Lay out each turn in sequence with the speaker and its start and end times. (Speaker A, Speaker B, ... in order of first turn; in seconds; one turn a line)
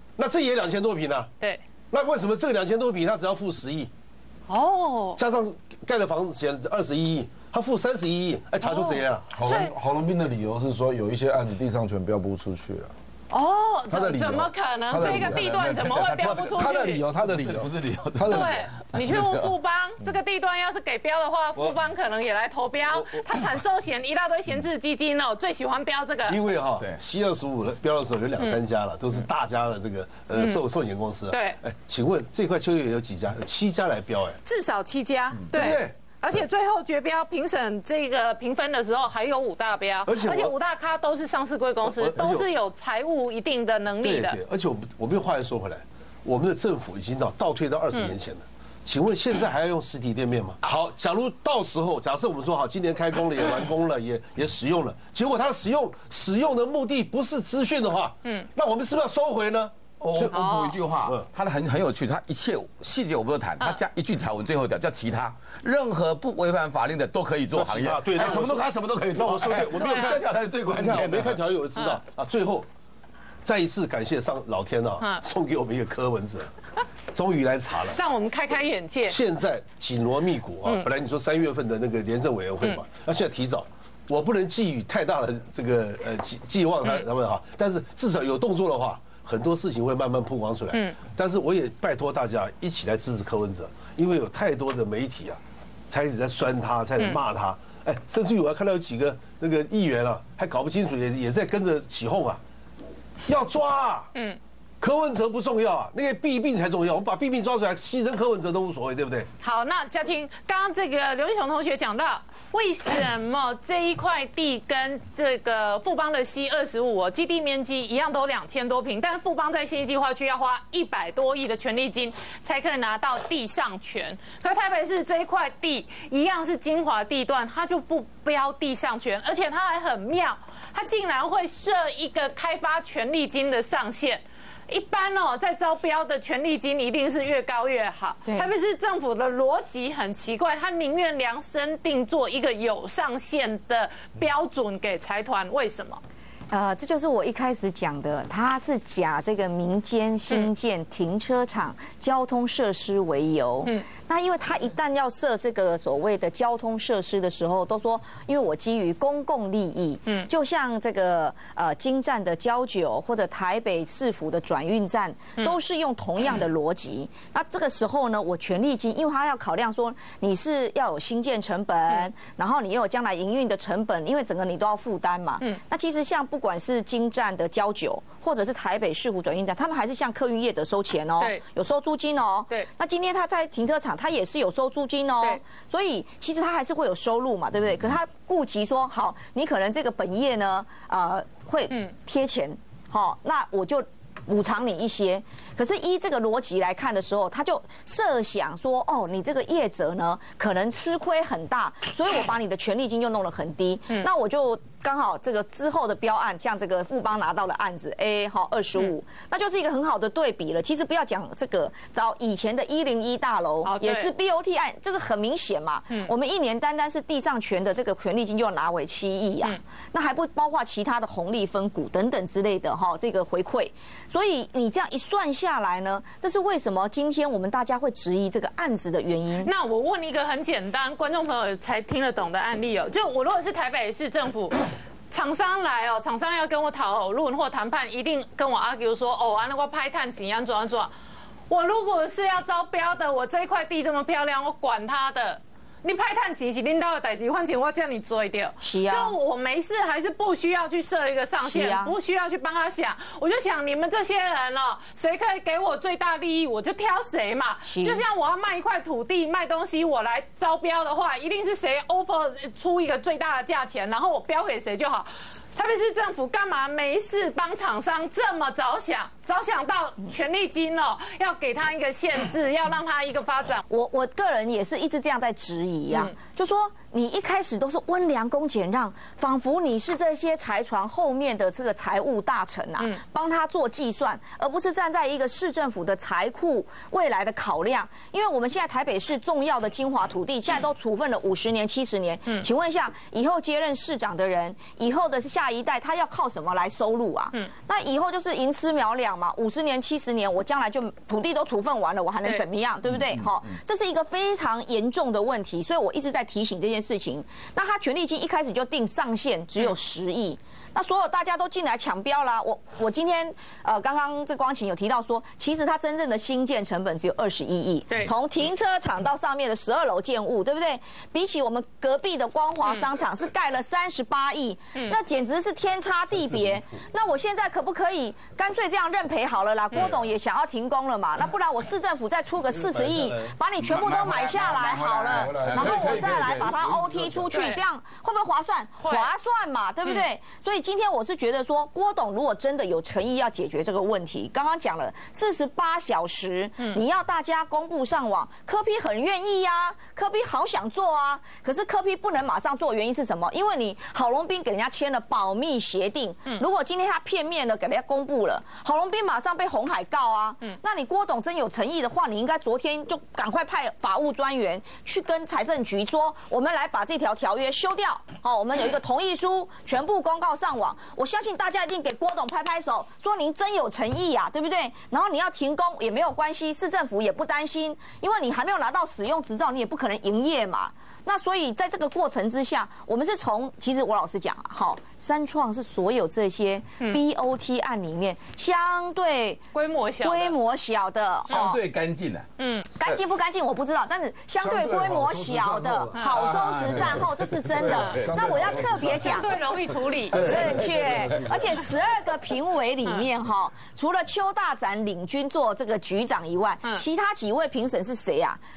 Speaker A: 0.2-1.3
Speaker A: 1.9-3.9
Speaker B: 4.5-5.2
Speaker A: 5.2-9.3
Speaker B: 8.6-9.7
Speaker C: 9.3-12.9
Speaker B: 13.3-17.0
Speaker C: 13.9-18.5
Speaker D: 14.9-19.5
Speaker B: 18.3-26.4
Speaker A: 26.3-34.4
Speaker B: 30.4-30.6
Speaker B: 31.3-31.6
Speaker B: 34.5-44.4
Speaker A: 35.5-36.0
Speaker A: 40.1-40.5
Speaker A: 41.8-42.5
Speaker A: 44.0-60.4
Speaker D: 60.0-71.4
Speaker B: 60.3-60.8
Speaker A: 60.9-61.3
Speaker A: 67.5-72.7
Speaker B: 69.8-70.2
Speaker A: 73.4-76.5
Speaker A: 77.1-78.0
Speaker B: 78.0-79.2
Speaker A: 79.1-102.4
Speaker A: 103.3-104.1
Speaker B: 104.1-104.4
Speaker A: 104.8-109.3
Speaker B: 109.4-146.0
Speaker E: 138.2-138.5
Speaker E: 146.5-229.5
Speaker B: 213.7-214.1
Speaker B: 229.4-240.9
Speaker B: 241.5-273.6
Speaker E: 248.6-249.2
Speaker E: 251.4-251.9
Speaker E: 257.6-258.0
Speaker E: 273.7-389.5
Speaker C: 332.6-337.4
Speaker D: 333.6-336.8
Speaker B: 337.3-337.6
Speaker B: 338.8-339.1
Speaker B: 389.5-390.4
Speaker E: 390.0-391.6
Speaker D: 391.3-392.3
Speaker B: 392.4-392.7
Speaker E: 392.8-399.4
Speaker C: 394.4-399.3
Speaker B: 397.7-398.0
Speaker B: 399.0-400.5
Speaker C: 400.1-401.7
Speaker E: 400.1-408.4